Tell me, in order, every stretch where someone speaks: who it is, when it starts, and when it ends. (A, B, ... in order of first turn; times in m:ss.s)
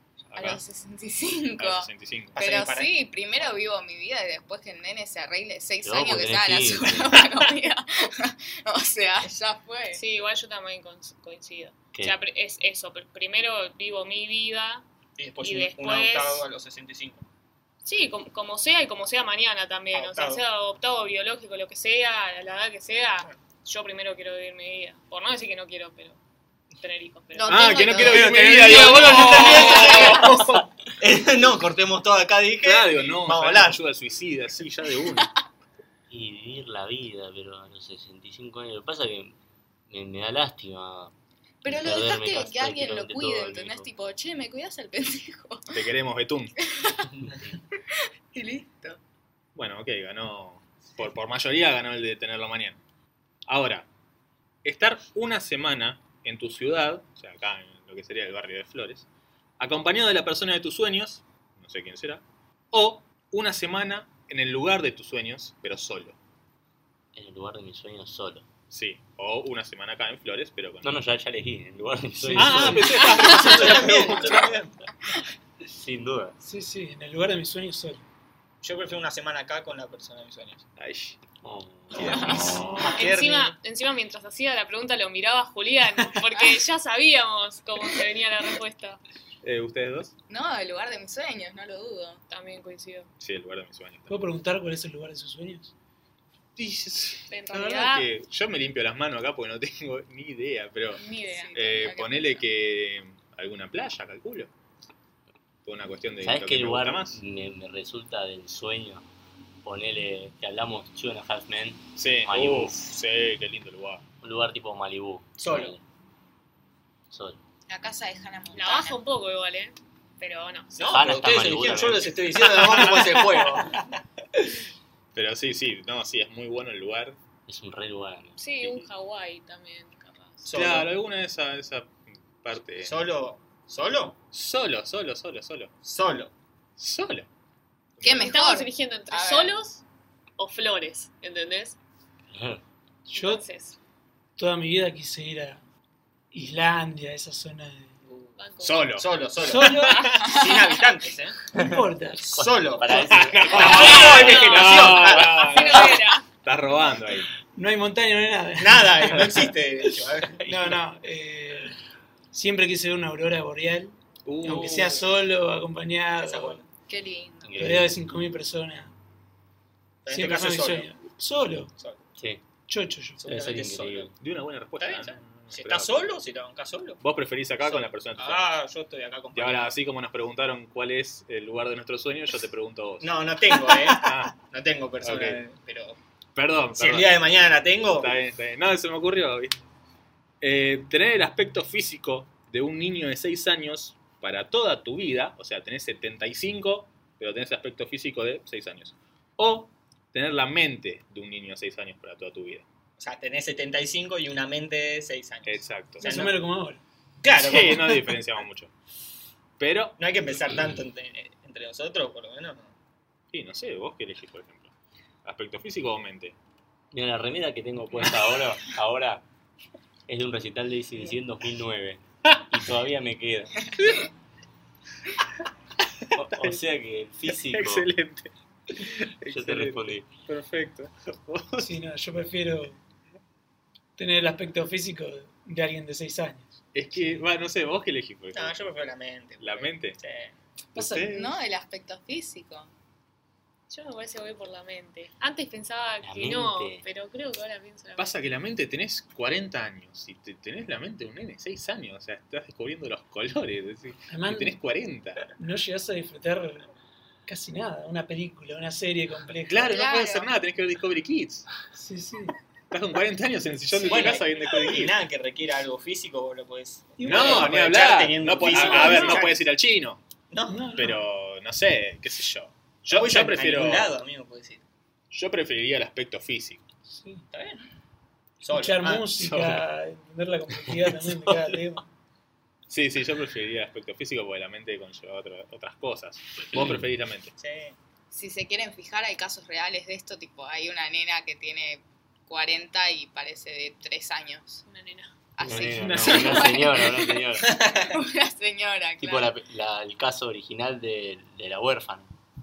0:00.3-0:00.6 A
0:00.3-0:10.0 B
0:01.6-0:02.4 A
0:02.3-0:02.9 C
0:05.8-0:07.2 D
0:09.9-0:14.8 E
0:15.2-0:17.2 C
0:15.4-0:16.4 E
0:17.8-0:26.2 E
0:19.9-0:20.4 C
0:26.8-0:27.7 E
0:27.3-0:30.4 B
0:27.4-0:30.6 A
0:28.0-0:30.4 C
0:31.0-0:33.8 C
0:32.6-0:35.3 A
0:36.1-0:39.3 D
0:39.9-0:41.1 D
0:41.6-0:45.8 B
0:41.7-0:43.9 D
0:45.7-0:46.5 A
0:46.6-0:47.2 B
0:48.3-0:49.0 B
0:49.5-0:52.8 A
0:53.5-0:53.9 A
0:54.6-0:59.1 A
0:59.6-1:06.2 A
1:07.1-1:08.4 D
1:08.7-1:11.0 A
1:10.8-1:14.5 D
1:12.2-1:13.1 F
1:12.4-1:14.7 A
1:13.3-1:14.5 C
1:15.7-1:16.3 D
1:16.4-1:18.0 F
1:18.6-1:20.6 C
1:20.8-1:21.2 A
1:21.4-1:22.7 D
1:22.0-1:23.0 B
1:22.1-1:22.5 A
1:22.8-1:23.6 C
1:22.9-1:29.0 E
1:29.4-1:30.1 A
1:30.3-1:32.2 B
1:32.3-1:33.1 E
1:33.2-1:34.2 A
1:34.1-1:35.7 F
1:36.6-1:41.0 A
1:37.3-1:38.1 E
1:41.0-1:41.5 E
1:41.1-1:42.4 B
1:41.5-1:44.5 A
1:45.6-1:47.2 A
1:46.2-1:49.0 D
1:49.6-1:52.8 D
1:52.0-1:54.0 A
1:54.2-1:55.8 D
1:55.4-1:55.8 C
1:57.1-1:57.4 D
1:57.7-1:59.0 B
1:58.5-2:01.0 E
2:00.8-2:03.9 C
2:00.9-2:02.4 D
2:02.4-2:03.1 A
2:05.1-2:07.2 A
2:07.5-2:08.4 D
2:08.4-2:10.5 E
2:10.4-2:10.9 C
2:10.5-2:13.0 A
2:12.8-2:14.2 C
2:14.3-2:15.7 A
2:15.8-2:16.3 C
2:16.8-2:17.3 A
2:18.0-2:18.3 A
2:18.0-2:19.5 B
2:18.1-2:19.8 E
2:20.4-2:21.8 E
2:22.3-2:22.6 D
2:23.1-2:23.8 E
2:23.1-2:23.4 F
2:24.4-2:25.6 F
2:26.3-2:28.0 F
2:28.0-2:28.4 C
2:28.4-2:28.9 E
2:28.6-2:30.4 A
2:28.9-2:31.4 C
2:29.4-2:30.2 F
2:31.5-2:32.3 F
2:31.6-2:31.8 D
2:32.2-2:35.5 C
2:32.3-2:34.2 D
2:32.9-2:37.3 A
2:33.8-2:36.2 E
2:37.6-2:39.2 F
2:38.6-2:40.4 C
2:40.2-2:40.8 D
2:40.4-2:41.8 F
2:42.3-2:46.6 F
2:44.2-2:45.0 A
2:44.5-2:45.0 C
2:46.2-2:46.7 C
2:46.9-2:47.7 B
2:47.4-2:48.0 D
2:47.6-2:48.9 F
2:50.0-2:50.9 C
2:50.1-2:51.7 F
2:51.8-2:52.0 C
2:52.7-2:53.2 F
2:53.2-2:54.1 C
2:53.2-2:54.1 D
2:54.2-2:56.1 A
2:54.8-2:57.0 C
2:57.0-2:58.5 A
2:57.6-2:59.7 C
2:59.3-3:04.4 A
3:03.0-3:06.0 C
3:05.0-3:05.4 A
3:06.3-3:07.2 A
3:06.7-3:08.1 C
3:08.0-3:09.6 A
3:10.4-3:22.7 A
3:23.0-3:26.4 C
3:25.4-3:26.0 A
3:26.0-3:26.8 F
3:27.2-3:28.2 C
3:27.2-3:28.7 A
3:29.6-3:30.0 A
3:30.0-3:32.7 C
3:33.3-3:34.7 A
3:35.2-3:36.4 A
3:36.9-3:39.2 D
3:40.1-3:43.5 D
3:46.0-3:46.6 A
3:46.1-3:47.9 D
3:47.3-3:51.7 A
3:49.3-3:50.1 D
3:51.6-3:52.8 F
3:54.0-3:56.6 F
3:56.7-3:58.6 A
3:58.3-4:00.4 C
3:59.4-4:00.0 A
4:00.7-4:01.4 A
4:00.8-4:01.0 F
4:01.1-4:02.7 B
4:03.7-4:08.2 E
4:06.0-4:06.8 D
4:08.0-4:15.2 A
4:14.1-4:14.6 F
4:15.4-4:16.7 F
4:17.2-4:19.8 F
4:19.5-4:21.5 A
4:19.7-4:20.3 B
4:21.7-4:22.4 F
4:22.7-4:24.9 A
4:23.7-4:24.2 F
4:23.9-4:29.4 C
4:27.0-4:27.6 F
4:27.0-4:30.0 A
4:28.4-4:29.2 F
4:30.3-4:30.7 C
4:30.5-4:31.0 F
4:30.7-4:33.9 A
4:32.9-4:34.6 C
4:35.1-4:36.6 A
4:36.8-4:37.2 F
4:37.3-4:37.7 C
4:38.4-4:39.1 C
4:38.5-4:41.8 F
4:39.2-4:39.6 A
4:42.7-4:47.3 A
4:46.5-4:46.8 D
4:47.4-4:47.8 C
4:48.1-4:54.6 B
4:54.6-4:55.1 E
4:55.4-4:57.2 B
4:55.4-4:57.5 D
4:55.7-4:56.4 F
4:57.4-4:58.0 C
4:57.8-4:59.4 B
4:59.0-5:02.1 D